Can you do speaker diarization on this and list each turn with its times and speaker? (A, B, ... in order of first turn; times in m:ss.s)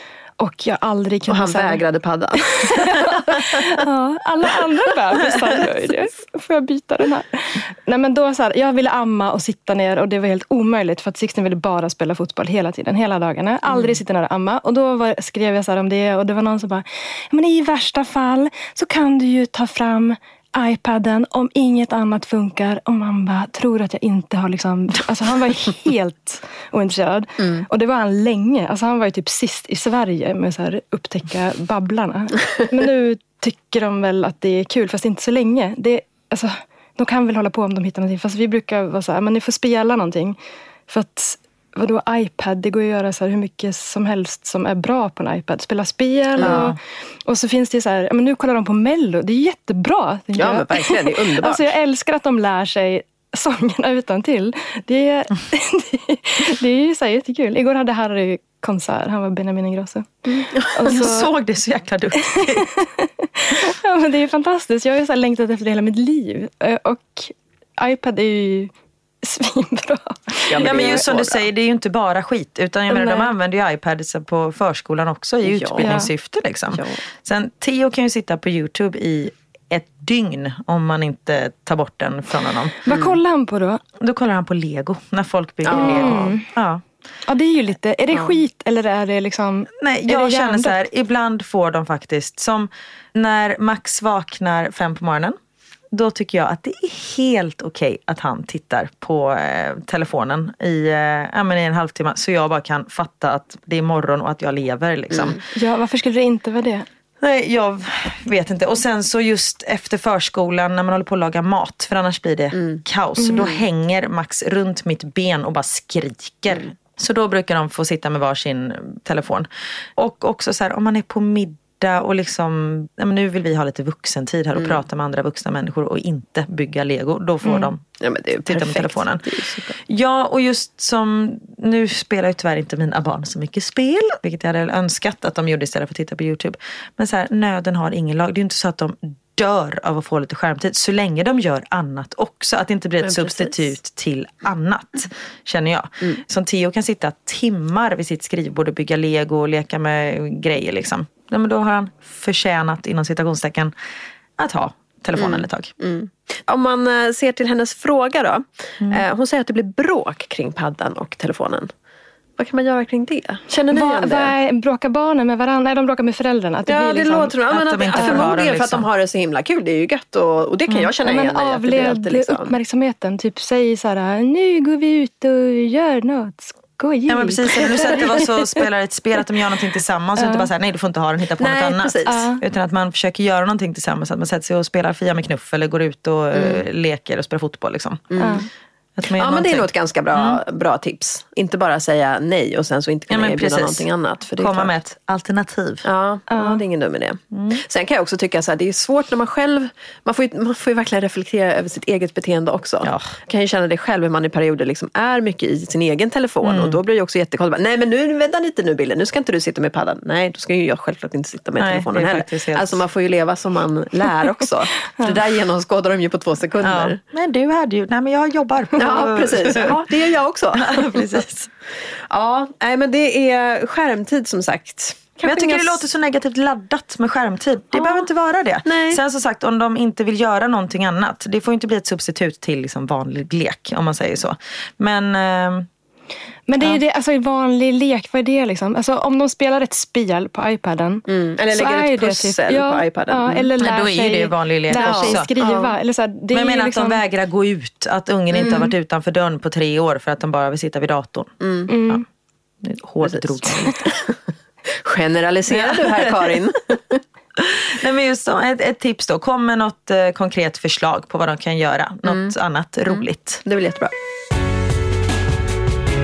0:00.4-0:01.8 A
0:01.3-0:03.7 B
0:02.4-1:01.3 A
0:46.4-0:46.7 B
0:46.4-0:46.8 C
0:50.4-0:51.7 B
1:00.3-1:00.9 B
1:00.8-1:02.9 C
1:02.2-1:11.0 A
1:10.5-1:11.4 B
1:10.6-1:22.8 C
1:12.9-1:13.3 A
1:15.4-1:16.1 B
1:15.8-1:16.1 A
1:16.7-1:17.0 B
1:22.8-1:23.8 A
1:24.0-1:26.8 C
1:25.6-1:26.3 B
1:25.7-1:26.5 A
1:27.3-1:30.8 A
1:29.8-1:35.4 C
1:35.9-1:45.4 C
1:45.1-1:45.4 B
1:45.5-1:46.9 A
1:47.2-2:09.2 C
1:53.2-1:53.5 A
1:53.3-1:53.6 B
2:08.0-2:09.8 B
2:09.9-2:33.7 C
2:23.0-2:23.7 B
2:34.4-2:35.7 C
2:35.2-2:41.7 B
2:42.4-2:44.3 B
2:43.7-2:47.4 A
2:46.7-2:52.6 B
2:47.5-2:48.8 C
2:48.0-2:48.3 A
2:51.0-2:58.7 A
2:57.1-3:08.2 C
3:00.2-3:00.5 A
3:01.4-3:02.3 B
3:02.1-3:02.4 A
3:06.3-3:06.6 B
3:08.1-3:08.4 B
3:08.2-3:08.5 A
3:09.0-3:10.4 C
3:09.1-3:14.7 B
3:13.1-3:13.8 C
3:14.4-3:15.8 C
3:15.8-3:37.0 B
3:16.3-3:16.6 A
3:17.3-3:17.6 C
3:22.8-3:23.2 C
3:26.4-3:26.8 C
3:31.6-3:32.8 C
3:36.6-3:39.8 C
3:38.8-3:41.2 B
3:40.6-3:41.5 C
3:42.1-3:45.8 B
3:45.2-3:55.7 C
3:47.7-3:48.1 B
3:48.7-3:49.0 B
3:56.5-4:07.0 A
4:01.1-4:03.5 B
4:03.6-4:05.3 C
4:04.7-4:05.7 B
4:06.3-4:11.4 C
4:08.3-4:08.7 B
4:11.4-4:11.7 B
4:11.7-4:12.0 A
4:12.6-4:13.9 C
4:13.0-4:14.2 B
4:14.7-4:17.0 B
4:15.5-4:16.3 C
4:17.4-4:23.4 C
4:22.1-4:22.3 B
4:22.9-4:23.9 B